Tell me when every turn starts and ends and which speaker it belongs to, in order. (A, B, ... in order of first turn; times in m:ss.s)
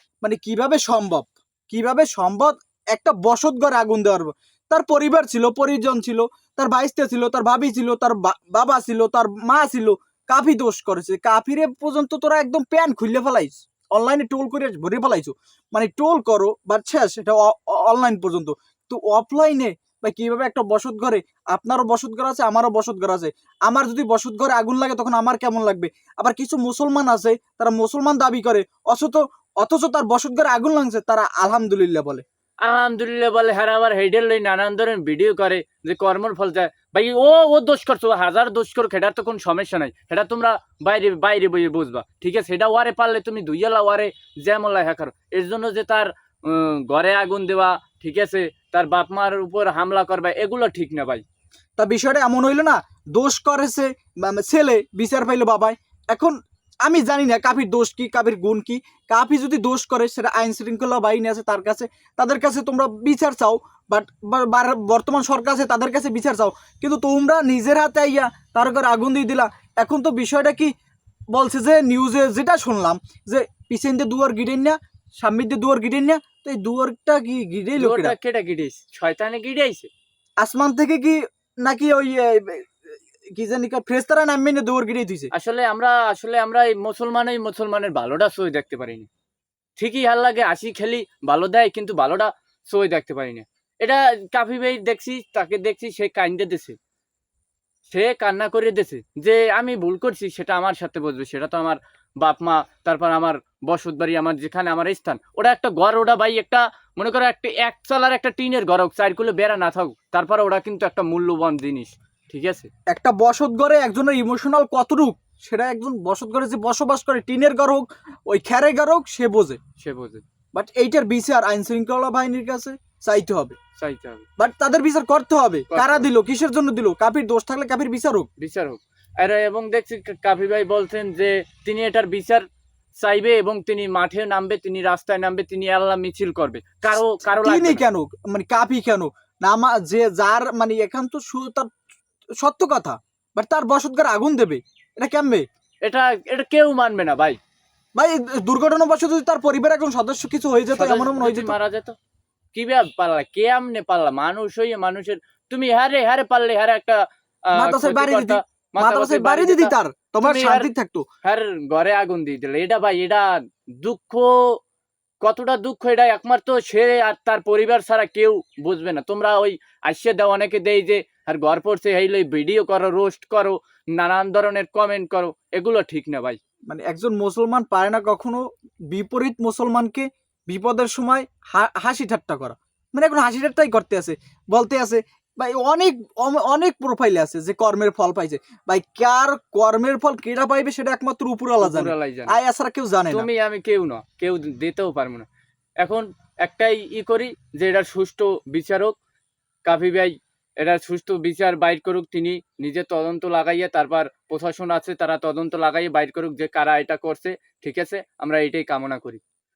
0:00.2-0:32.2 A
0:32.6-0:51.2 B
0:51.8-1:10.7 A
1:11.3-1:18.1 A
1:17.8-1:19.9 B
1:20.4-1:22.8 A
1:23.3-1:25.3 A
1:25.3-1:29.1 B
1:29.8-1:36.8 B
1:37.9-1:52.7 B
1:52.9-1:59.6 A
1:59.8-2:00.2 B
2:00.5-2:03.6 A
2:03.8-2:04.2 B
2:04.4-2:08.3 A
2:05.7-2:06.1 B
2:08.4-2:12.4 B
2:13.0-2:17.9 B
2:16.9-2:21.7 A
2:22.4-2:25.4 A
2:25.8-2:27.4 B
2:28.0-2:31.5 A
2:30.7-2:32.0 B
2:32.5-2:40.7 B
2:37.5-2:41.0 A
2:41.2-2:44.6 B
2:45.2-2:56.4 B
2:56.7-3:13.3 A
3:11.6-3:12.4 B
3:13.1-3:15.3 B
3:15.8-3:19.0 B
3:19.6-3:29.2 B